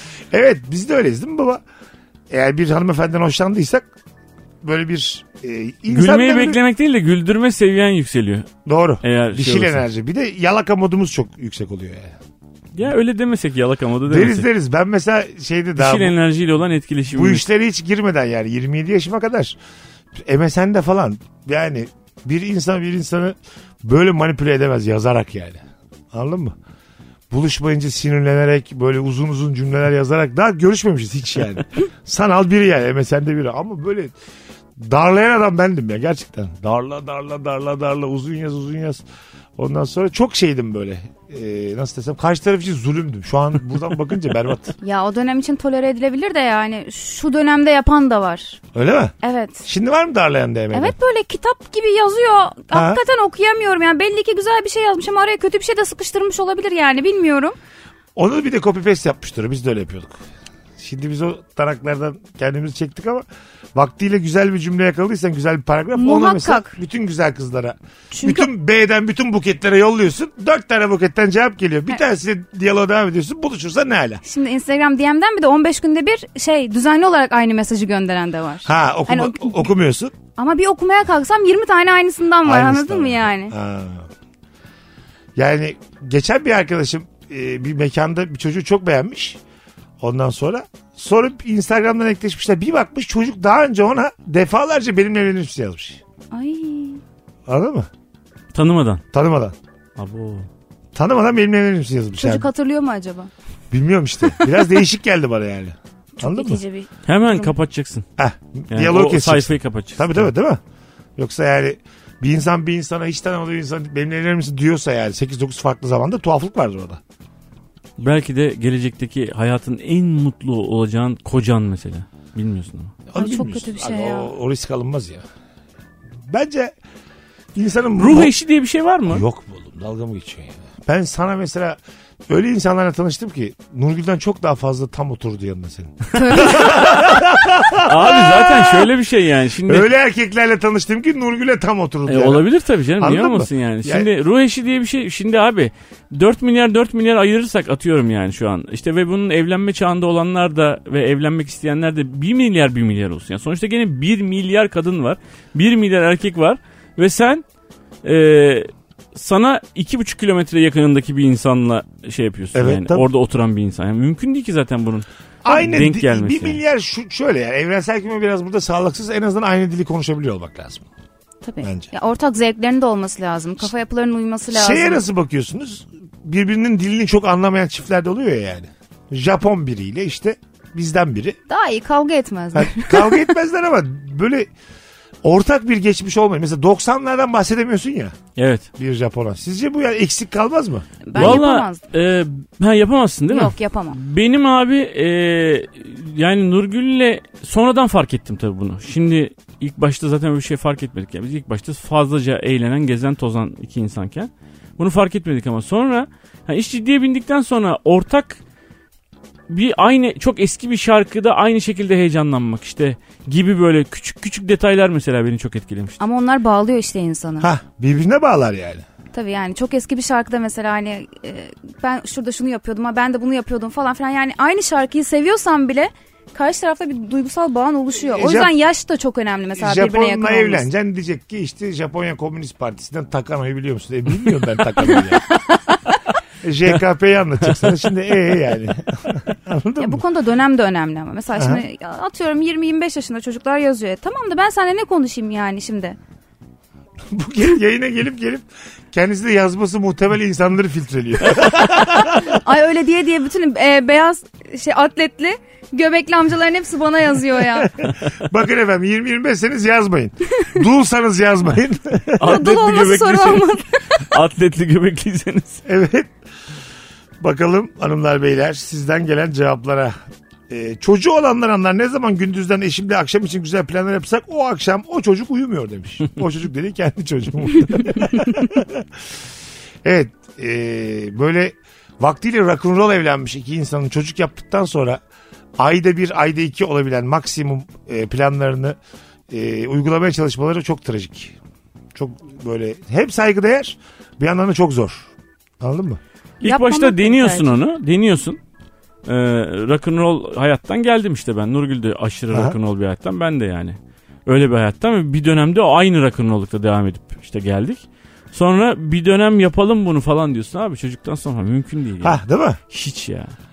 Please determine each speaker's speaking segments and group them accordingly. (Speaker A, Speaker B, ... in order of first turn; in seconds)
Speaker A: 0.3-1.6, 2.3-3.9, 4.6-6.6, 8.7-12.2, 14.1-16.1, 17.1-19.6, 20.2-26.6, 27.3-34.1, 34.8-39.0, 39.6-44.7, 48.7-49.1, 49.7-51.0, 52.7-53.0, 58.2-60.1, 60.8-74.2, 78.7-80.2, 82.5-84.1, 85.4-89.4, 90.0-96.0, 97.5-97.9, 99.1-99.5, 101.0-102.5, 103.7-106.6, 108.2-110.6, 111.2-117.0, 123.1-125.2, 126.3-126.7, 127.5-128.3, 129.1-138.9, 139.7-142.5, 143.0-144.1, 162.5-163.1, 165.4-170.9, 171.6-171.9, 174.5-181.4, 182.5-184.5, 185.2-188.2, 188.8-191.4, 217.4-218.8, 228.0-228.5, 229.6-235.2, 236.4-240.0, 241.4-241.6, 247.1-252.4, 257.5-262.3, 265.7-266.1, 267.2-269.9, 270.5-278.9, 279.8-285.0, 285.6-288.8, 289.3-291.4, 291.9-295.1, 295.6-296.0, 312.0-312.6
Speaker B: 5.9-8.5, 9.0-9.8, 12.8-14.5, 15.8-17.4, 98.5-99.0, 100.0-100.5, 107.1-108.0, 108.7-110.3, 118.0-123.0, 128.0-129.2, 137.7-139.9, 142.1-157.4, 158.0-166.6, 188.4-188.7, 191.2-208.4, 209.5-216.0, 262.2-265.6, 296.4-298.4, 299.1-313.3
Speaker C: 44.8-48.6, 49.2-49.7, 50.7-57.6, 66.0-66.8, 68.1-68.5, 74.2-79.7, 80.4-83.5, 96.3-97.0, 102.2-103.3, 106.2-107.5, 123.2-124.3, 136.1-136.9, 171.4-175.0, 181.5-183.3, 191.1-191.8, 193.3-194.0, 216.0-217.5, 219.1-230.7, 239.8-246.0, 251.8-257.7, 262.2-263.9, 296.4-297.5